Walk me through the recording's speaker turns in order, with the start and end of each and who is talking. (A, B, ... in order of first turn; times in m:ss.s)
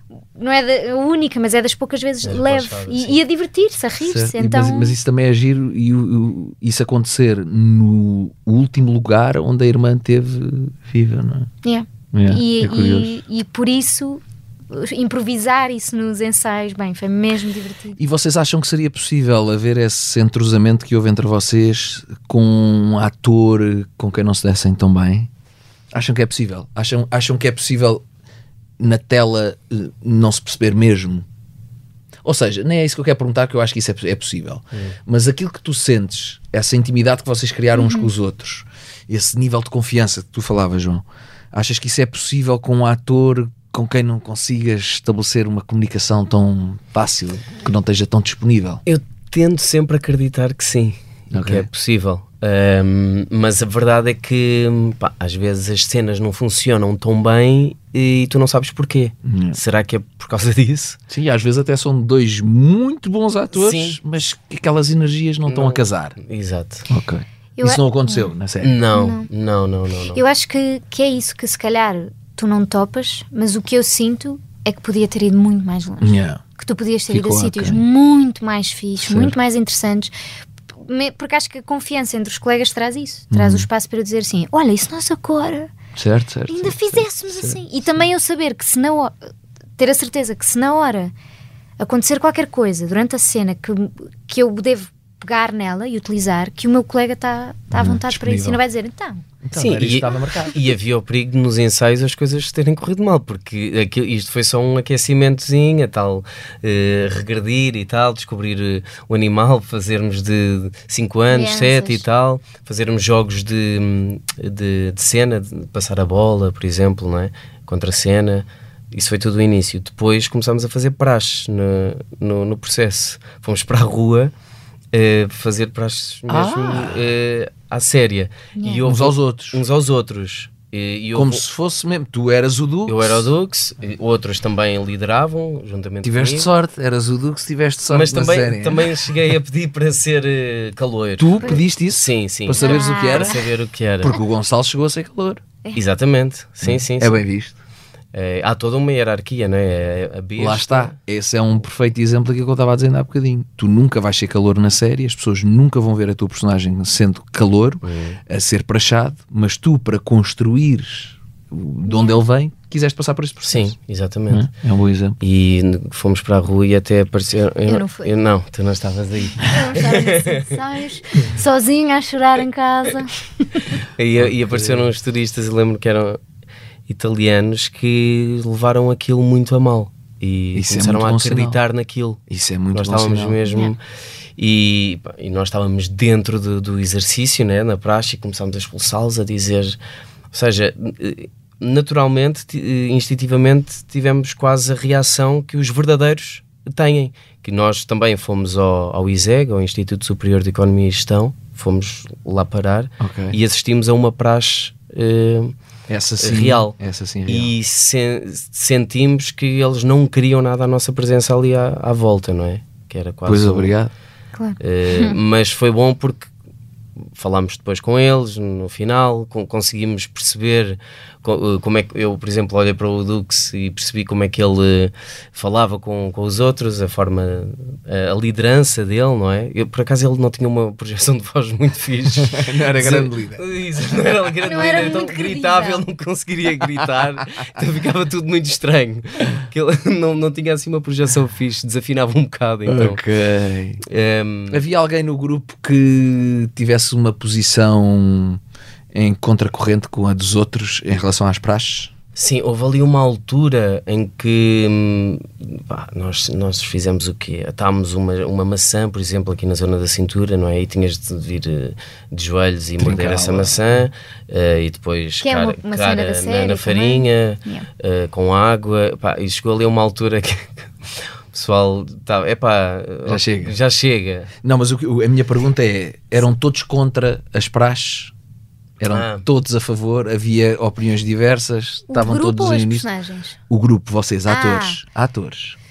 0:00.4-0:05.0 A
0:02.2-0:03.2 B
0:04.0-0:11.5 C
0:11.6-0:18.0 A
0:12.1-0:13.1 C
0:18.0-0:25.3 C
0:25.9-0:28.0 C
0:28.8-0:31.2 C
0:32.2-0:48.8 C
0:37.7-0:38.1 A
0:48.8-1:01.0 B
0:51.3-0:51.7 C
0:59.2-0:59.6 C
1:01.1-1:06.2 C
1:03.5-1:04.0 B
1:05.4-1:06.9 B
1:06.9-1:08.8 C
1:07.6-1:08.3 A
1:08.6-1:10.2 B
1:08.9-1:09.3 A
1:10.1-1:20.1 A
1:16.0-1:16.4 C
1:17.1-1:17.8 C
1:19.0-1:19.3 C
1:20.8-1:25.7 A
1:23.3-1:23.7 C
1:26.0-1:27.6 C
1:26.5-1:29.1 A
1:29.8-1:31.1 A
1:31.8-1:39.2 A
1:37.7-1:38.6 C
1:39.4-1:40.5 C
1:39.5-2:04.3 B
1:51.3-1:52.0 A
2:04.9-2:11.4 B
2:06.3-2:07.0 C
2:08.8-2:09.6 C
2:11.1-2:13.3 C
2:12.9-2:16.5 B
2:16.0-2:19.0 C
2:17.9-2:24.2 B
2:21.2-2:23.4 C
2:22.6-2:23.3 A
2:24.0-2:25.4 C
2:25.7-2:27.2 B
2:26.6-2:27.5 C
2:28.1-2:30.9 B
2:30.4-2:43.7 C
2:37.8-2:38.2 B
2:41.8-2:42.2 A
2:43.4-2:44.5 B
2:44.3-2:45.2 C
2:45.2-2:50.4 B
2:47.7-2:48.1 A
2:49.4-2:53.6 A
2:54.0-2:56.2 B
2:54.2-2:54.9 C
2:56.9-3:02.2 B
3:00.5-3:01.6 C
3:02.3-3:03.4 C
3:02.7-3:03.8 B
3:03.5-3:03.7 A
3:04.4-3:09.8 B
3:10.3-3:25.5 B
3:23.0-3:23.4 C
3:25.9-3:27.5 C
3:26.2-3:26.8 B
3:27.3-3:33.7 B
3:33.2-3:33.9 C
3:34.4-3:35.2 A
3:34.6-3:36.3 B
3:37.1-4:03.0 B
3:52.3-3:53.4 C
3:54.4-3:55.8 A
4:02.6-4:03.8 C
4:03.9-4:04.6 B
4:04.5-4:08.4 C
4:08.9-4:11.9 C
4:12.2-4:34.3 B
4:22.8-4:23.8 C
4:25.2-4:27.6 A
4:33.0-4:33.5 C
4:34.4-4:38.1 C
4:38.8-4:42.9 C
4:38.9-4:39.2 B
4:41.9-4:43.4 A
4:43.5-4:45.6 C
4:44.3-4:44.8 A